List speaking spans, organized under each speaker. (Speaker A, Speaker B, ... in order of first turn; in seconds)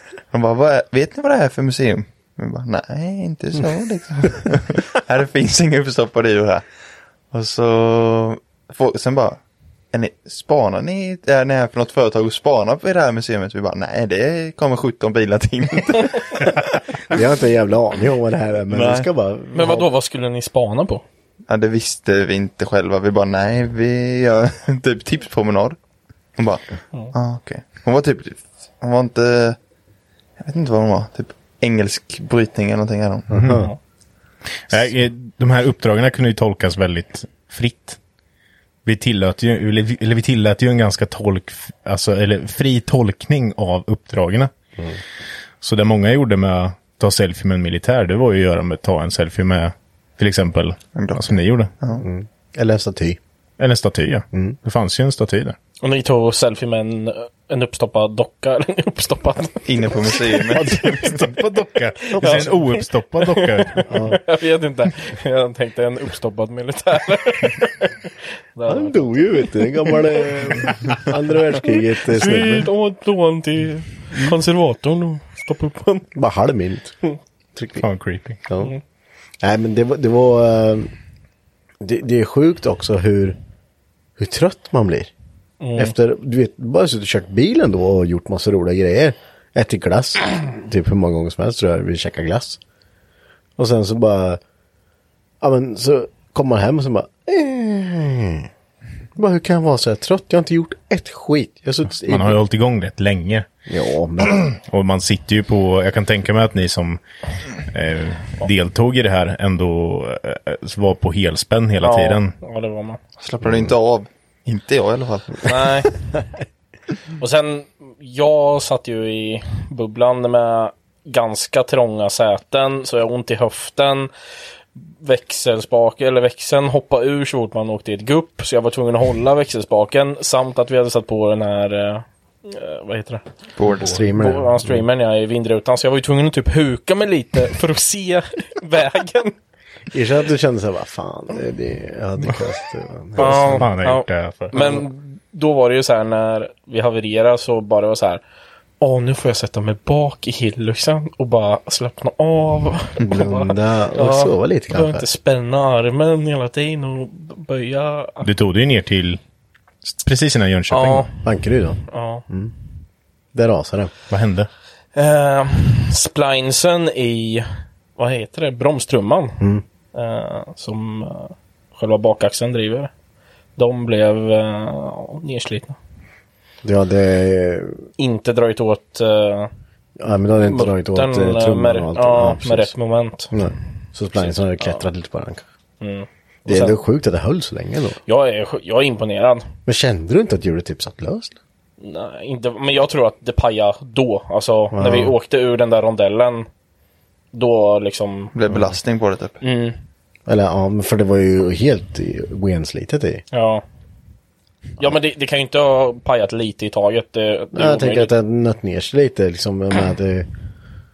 Speaker A: 0.3-6.6, 7.3-9.4, 9.9-16.8, 18.7-19.1, 21.5-25.8, 26.4-29.6, 30.4-33.4, 51.0-52.0, 59.7-61.1, 113.2-115.9, 133.6-133.9, 198.3-199.4
Speaker B: 17.1-19.9, 33.3-33.7, 52.0-53.2, 60.6-60.9, 62.2-62.6, 63.9-64.2, 68.7-72.7, 76.1-77.0, 77.5-77.9, 78.5-78.7, 79.4-80.9, 81.8-83.4, 84.2-85.1, 85.8-92.6, 93.6-94.4, 95.4-98.5, 99.2-102.4, 103.7-104.4, 113.4-113.7, 133.8-134.8, 139.9-143.7, 144.5-144.8, 153.0-155.1, 161.2-162.5, 163.3-163.9, 176.6-177.8, 180.0-182.7, 183.3-185.4, 186.5-188.0, 189.7-191.4, 194.7-195.2, 200.3-203.2, 207.5-210.3
Speaker C: 19.6-21.0, 55.8-59.6, 62.2-71.0, 71.6-76.1, 85.6-85.9, 111.8-113.0, 115.4-115.9, 117.2-124.1, 124.9-133.2, 134.2-139.3, 143.2-148.2, 148.8-158.3, 160.7-161.1, 161.9-162.2, 165.0-169.4, 169.9-172.9, 173.6-175.8, 178.0-179.5, 180.5-183.3, 184.2-184.8, 185.8-186.8, 188.1-189.5, 191.8-196.5, 197.3-198.3, 199.4-199.8, 203.3-203.6, 204.8-208.1
Speaker D: 33.3-33.7, 34.7-38.0, 38.9-44.5, 45.6-51.7, 53.6-55.6, 60.6-64.1, 77.8-78.4, 101.9-103.5, 104.3-107.0, 107.6-112.3, 143.2-144.5, 158.2-159.2, 159.8-161.1, 164.1-164.5